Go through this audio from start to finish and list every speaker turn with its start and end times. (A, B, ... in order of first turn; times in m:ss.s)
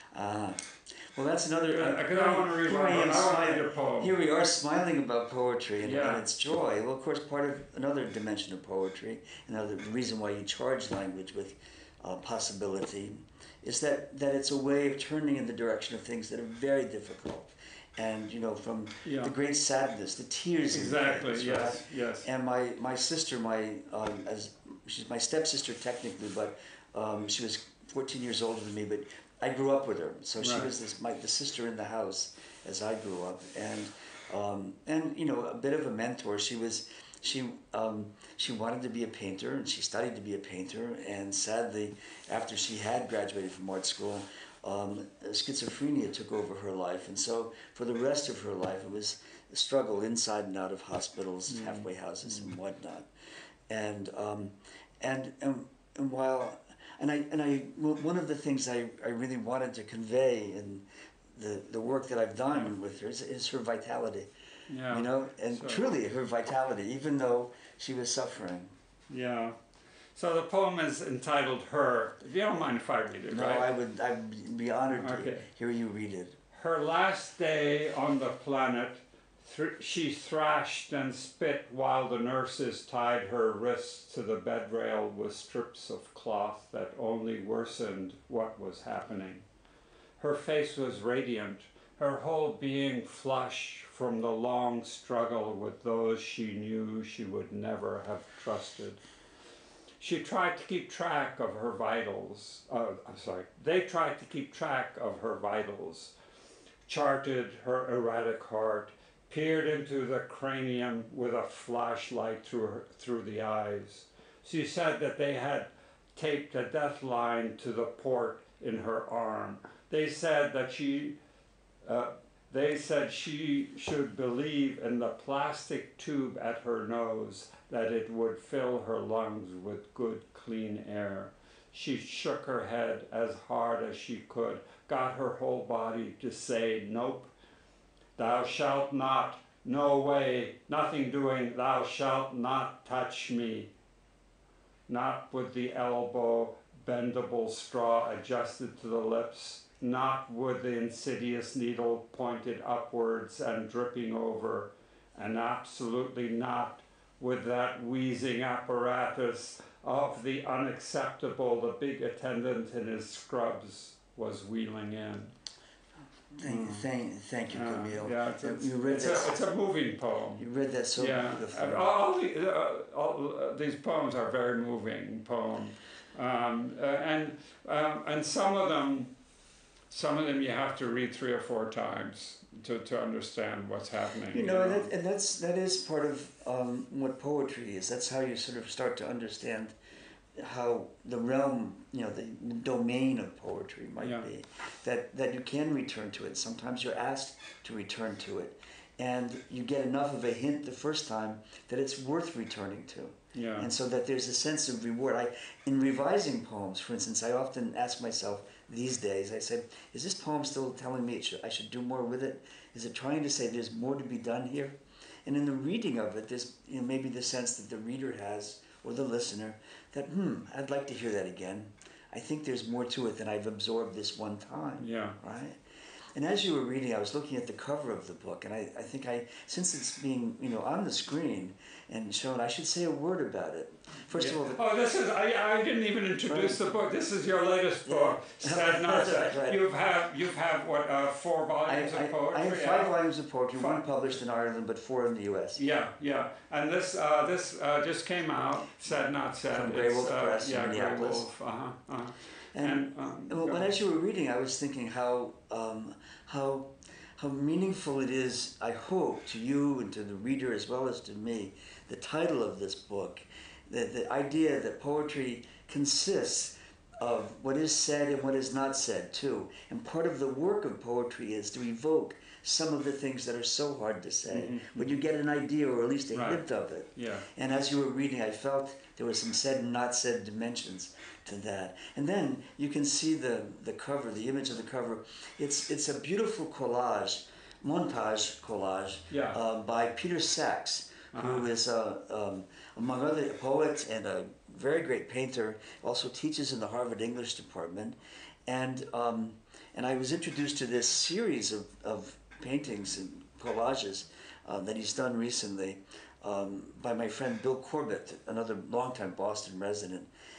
0:00.1-0:53.1 A
0:01.7-0:04.1 B
0:05.8-0:06.2 B
0:19.0-0:19.3 B
0:20.7-0:22.3 B
0:30.4-0:30.7 B
0:51.5-0:52.5 B
0:53.7-1:04.3 A
1:04.7-1:05.9 B
1:04.9-1:08.7 A
1:09.1-1:09.6 B
1:10.2-1:13.7 B
1:13.3-1:16.4 A
1:14.9-1:15.5 B
1:16.5-1:29.4 B
1:30.2-1:39.0 B
1:40.0-1:46.1 B
1:46.9-2:01.2 B
2:01.8-2:17.3 B
2:18.2-2:23.7 B
2:24.9-2:45.3 B
2:46.4-2:49.4 A
2:46.4-2:46.9 B
2:47.5-2:50.4 B
2:50.4-2:51.9 A
2:51.0-2:59.1 B
2:59.9-3:04.9 B
3:04.3-3:09.8 A
3:10.4-3:45.6 A
3:14.0-3:14.3 B
3:23.4-3:23.7 B
3:44.8-3:45.2 B
3:46.2-3:54.6 A
3:54.2-4:02.9 B
3:56.3-3:56.6 A
3:57.9-3:59.6 A
4:01.7-4:05.6 A
4:03.6-4:03.8 B
4:05.6-4:13.7 B
4:09.5-4:11.2 A
4:12.5-5:10.1 A
4:34.3-4:34.9 B
4:36.2-4:36.4 B
4:37.0-4:37.3 B
4:49.1-4:49.4 B
4:51.1-4:51.5 B